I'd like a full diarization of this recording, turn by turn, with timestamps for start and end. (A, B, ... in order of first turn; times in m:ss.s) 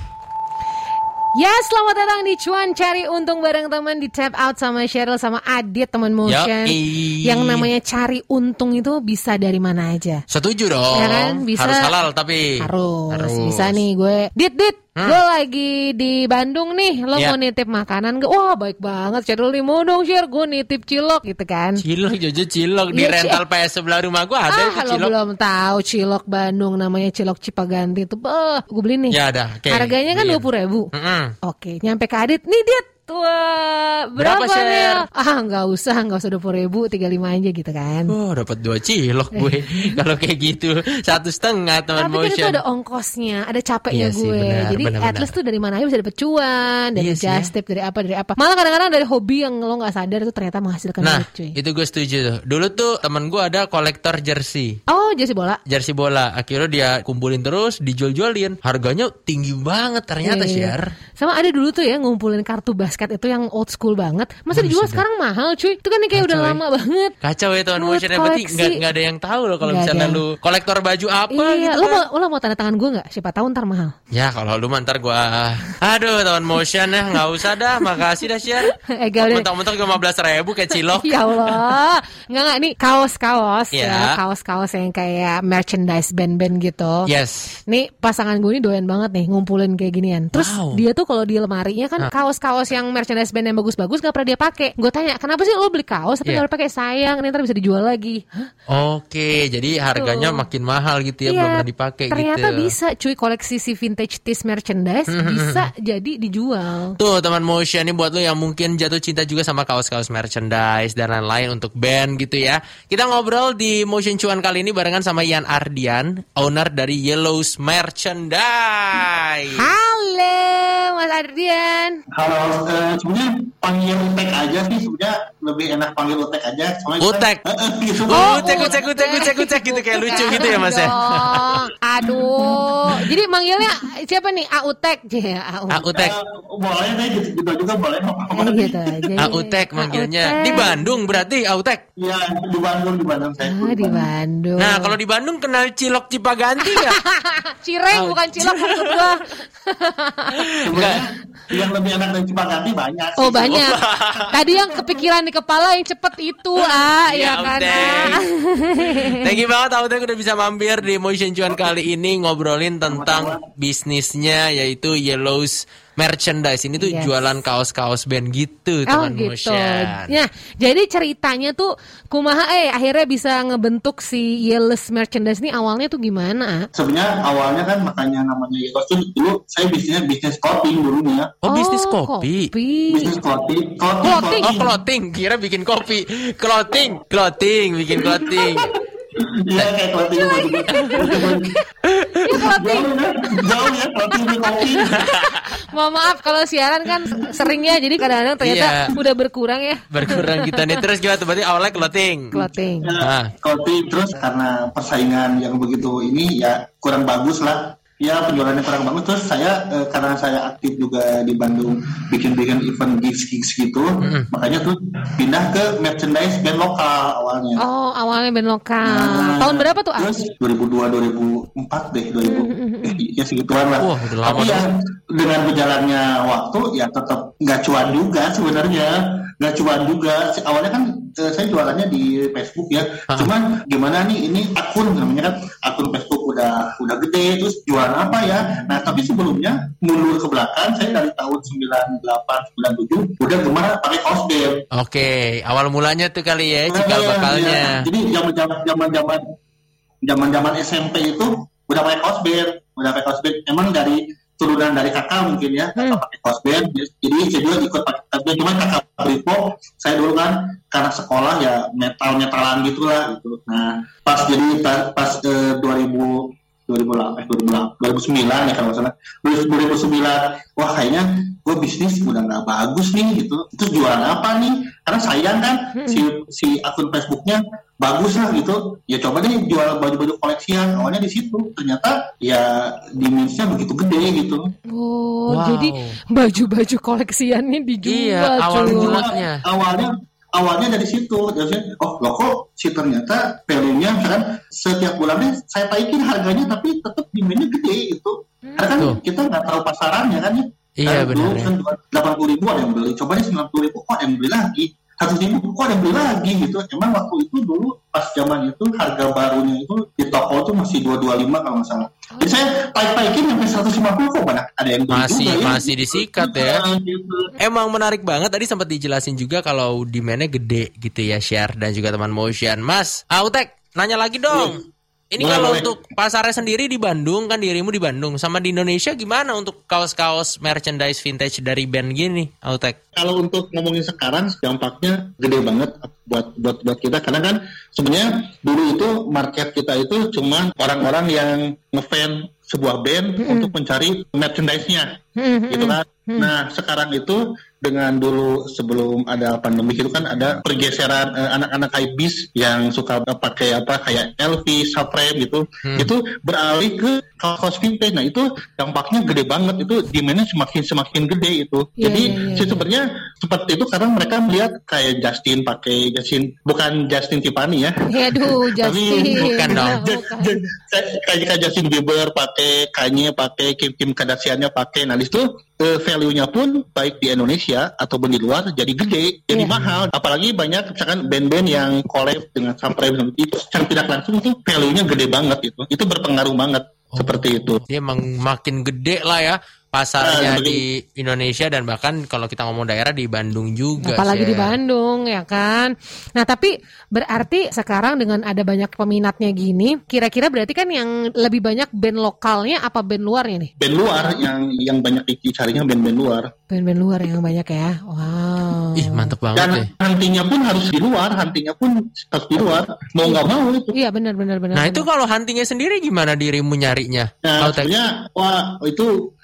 0:01.4-0:10.2 A
0:06.3-0:07.7 B
0:10.3-0:12.5 B
0:10.9-0:12.0 A
0:12.6-0:21.8 A
0:13.1-0:13.8 B
0:21.8-0:25.1 B
0:22.9-0:23.4 A
0:24.5-0:29.2 A
0:29.1-0:31.3 B
0:29.7-0:30.9 A
0:31.4-0:38.2 A
0:34.2-0:35.1 B
0:38.1-0:42.6 B
0:39.3-0:40.0 A
0:42.0-0:51.6 A
0:43.9-0:45.3 B
0:47.0-0:47.5 B
0:51.0-0:54.8 B
0:54.9-0:55.6 A
0:55.7-1:00.9 B
1:00.2-1:07.1 A
1:04.5-1:05.0 B
1:06.1-1:06.6 B
1:07.2-1:12.0 B
1:07.8-1:08.8 A
1:09.6-1:10.2 A
1:11.3-1:13.9 A
1:14.1-1:21.7 B
1:18.7-1:19.5 A
1:20.9-1:27.1 A
1:23.7-1:24.1 B
1:27.0-1:27.6 B
1:27.7-1:38.5 A
1:30.3-1:30.8 B
1:38.7-1:42.7 B
1:40.0-1:40.4 A
1:41.3-1:47.0 A
1:45.1-1:45.7 B
1:47.0-1:59.7 B
1:59.6-2:02.0 A
2:02.2-2:08.8 C
2:07.0-2:07.4 B
2:08.1-2:11.6 B
2:08.1-2:15.9 A
2:10.1-2:10.6 C
2:12.0-2:13.0 C
2:15.7-2:16.2 B
2:15.9-2:19.0 C
2:18.3-2:20.9 A
2:19.2-2:21.8 B
2:22.0-2:24.1 C
2:23.4-2:25.0 A
2:24.6-2:27.0 B
2:26.6-2:30.4 A
2:27.9-2:29.1 B
2:30.4-2:31.0 B
2:30.6-2:33.7 C
2:33.2-2:33.8 A
2:33.4-2:34.4 B
2:34.3-2:39.4 A
2:36.6-2:38.2 B
2:38.8-2:50.2 B
2:42.8-2:43.4 C
2:46.8-2:47.2 A
2:48.9-2:56.7 A
2:56.7-3:01.4 C
3:01.4-3:02.5 B
3:01.5-3:03.2 A
3:02.9-3:04.7 C
3:04.0-3:04.5 A
3:04.4-3:08.7 B
3:08.2-3:08.5 C
3:09.2-3:11.5 C
3:10.2-3:11.6 A
3:11.9-3:12.2 B
3:12.3-3:13.5 A
3:12.3-3:15.0 C
3:14.1-3:20.7 A
3:15.0-3:15.5 B
3:17.2-3:17.5 C
3:18.4-3:18.9 B
3:19.9-3:22.3 B
3:22.3-3:22.9 A
3:22.8-3:37.6 C
3:23.0-3:23.3 B
3:34.0-3:34.3 B
3:37.6-3:40.2 A
3:38.8-4:04.6 C
3:42.2-3:43.0 A
3:43.8-3:44.6 B
4:04.7-4:07.8 B
4:06.7-4:09.2 C
4:10.0-4:44.5 C
4:15.8-4:16.0 A
4:35.8-4:36.0 A
4:44.7-4:49.1 A
4:45.3-4:46.0 B
4:47.8-4:49.4 B
4:48.6-5:17.3 C
5:00.8-5:01.5 B
5:14.9-5:16.6 B
5:17.4-5:24.6 B
5:24.3-5:24.6 C
5:25.1-5:32.8 B
5:25.2-5:25.7 C
5:33.0-5:45.0 C
5:43.2-5:43.5 A
5:45.2-5:46.3 A
5:45.5-6:27.6 C
5:55.6-5:55.9 B
6:01.8-6:02.7 A
6:07.9-6:10.5 A
6:09.2-6:09.8 B
6:19.5-6:19.9 B
6:26.9-6:34.6 B
6:30.0-6:30.6 C
6:33.8-6:43.5 A
6:43.6-6:46.3 C
6:46.5-6:49.1 A
6:48.8-6:49.7 B
6:49.4-6:53.8 C
6:53.0-6:54.9 A
6:54.6-6:57.7 B
6:57.2-6:58.9 C